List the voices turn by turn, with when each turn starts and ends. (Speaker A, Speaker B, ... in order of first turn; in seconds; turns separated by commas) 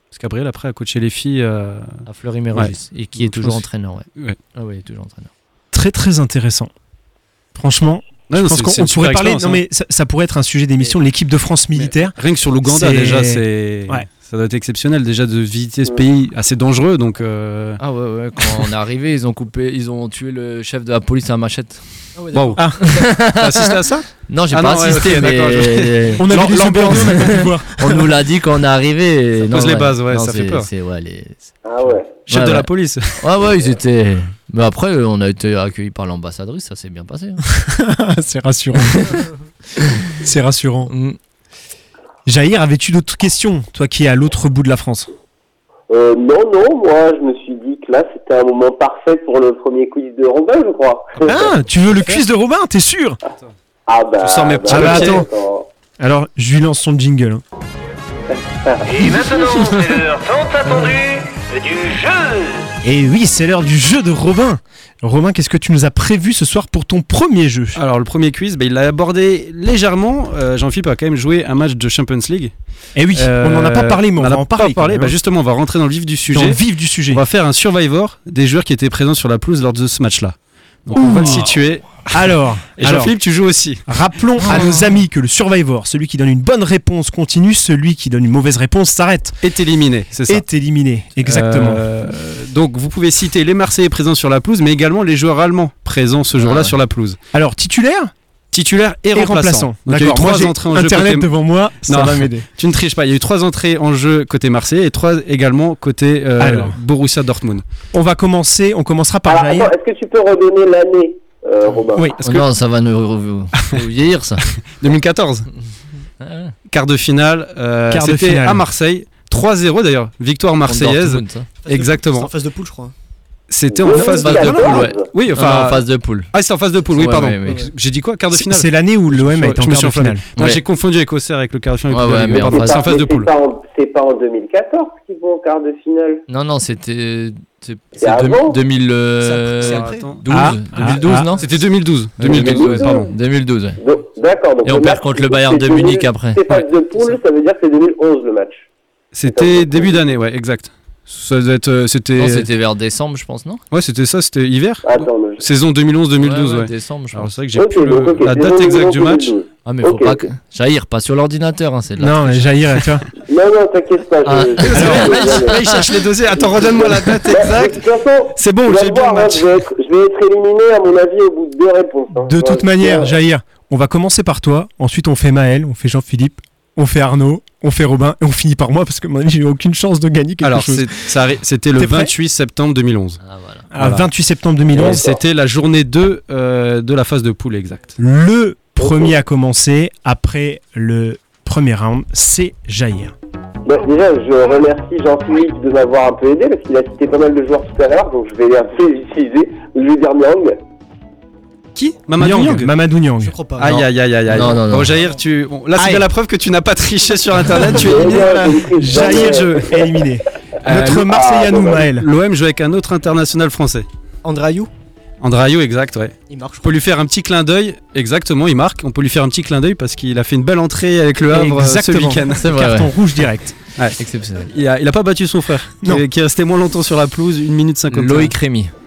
Speaker A: 0.1-3.6, Speaker B: 2.1-5.3, Speaker C: 5.7-6.7, Speaker C: 7.5-14.1, Speaker A: 8.3-9.6, Speaker A: 11.8-17.8, Speaker B: 17.8-21.9, Speaker A: 18.4-18.7, Speaker D: 22.2-22.9, Speaker A: 22.3-26.2, Speaker B: 22.8-23.7, Speaker B: 24.3-37.5, Speaker C: 26.2-28.1, Speaker A: 29.5-30.7, Speaker E: 31.6-32.1, Speaker A: 32.3-33.1, Speaker C: 37.5-39.2, Speaker B: 39.0-39.2, Speaker C: 40.1-40.9, Speaker B: 40.9-41.2, Speaker C: 42.3-45.1, Speaker E: 45.9-51.5, Speaker C: 51.2-53.2, Speaker E: 53.9-55.7, Speaker A: 54.2-55.2, Speaker C: 54.7-55.3, Speaker C: 56.0-57.4, Speaker E: 58.7-59.1, Speaker F: 59.2-62.3, Speaker C: 62.8-67.8, Speaker A: 67.8-72.5, Speaker C: 73.0-75.2, Speaker A: 73.1-83.8, Speaker C: 76.3-77.2, Speaker C: 80.9-81.5, Speaker C: 82.1-83.2, Speaker C: 83.9-89.4, Speaker A: 84.4-84.7, Speaker B: 84.5-84.8, Speaker A: 89.4-90.5, Speaker C: 90.3-91.8, Speaker A: 91.2-97.2, Speaker B: 96.4-96.8, Speaker C: 97.3-98.1, Speaker A: 98.5-101.3, Speaker C: 99.1-102.5, Speaker A: 101.8-107.6, Speaker C: 106.4-106.8, Speaker C: 107.9-109.7, Speaker E: 109.3-112.2, Speaker C: 111.9-112.2, Speaker B: 112.2-114.5, Speaker A: 114.6-115.5, Speaker B: 116.2-116.5, Speaker A: 116.7-122.3, Speaker C: 117.9-118.7, Speaker B: 120.7-121.5, Speaker D: 121.6-122.9, Speaker A: 123.5-133.3, Speaker E: 123.7-125.1, Speaker C: 123.9-124.8, Speaker B: 124.2-126.3, Speaker B: 127.0-127.6, Speaker D: 127.5-127.7, Speaker C: 128.3-130.2, Speaker B: 131.9-132.8, Speaker E: 132.5-136.2, Speaker B: 136.3-141.5, Speaker E: 138.0-138.6, Speaker D: 139.2-140.1, Speaker A: 139.6-143.1, Speaker C: 140.3-141.2, Speaker B: 142.2-143.8, Speaker E: 142.3-143.1, Speaker E: 143.8-148.7, Speaker B: 144.6-147.2, Speaker A: 149.1-152.5, Speaker E: 149.3-150.0, Speaker B: 152.2-153.6, Speaker A: 153.7-159.3, Speaker E: 154.8-155.4, Speaker B: 156.2-157.3, Speaker E: 157.6-160.2, Speaker B: 159.7-162.5, Speaker C: 162.0-163.1, Speaker E: 163.2-173.1, Speaker B: 164.2-165.7, Speaker A: 164.6-169.6, Speaker C: 164.8-165.1, Speaker C: 172.3-181.2, Speaker A: 180.4-183.2, Speaker C: 181.8-182.1, Speaker B: 183.2-183.7, Speaker C: 183.7-185.1, Speaker A: 183.8-184.1, Speaker A: 184.7-187.9, Speaker C: 188.0-193.2, Speaker E: 193.7-200.6, Speaker A: 201.8-202.7, Speaker C: 202.2-203.4, Speaker D: 203.2-203.8, Speaker A: 203.6-208.3, Speaker B: 203.7-204.9, Speaker C: 205.8-206.1, Speaker C: 207.4-212.1, Speaker E: 207.8-209.9, Speaker A: 210.6-211.2, Speaker E: 211.1-211.8, Speaker A: 211.8-213.9, Speaker D: 214.2-214.7, Speaker A: 215.2-222.5, Speaker D: 216.3-216.7, Speaker C: 221.3-223.6, Speaker B: 222.4-222.9, Speaker B: 224.0-224.5, Speaker A: 224.5-228.3, Speaker B: 227.9-228.7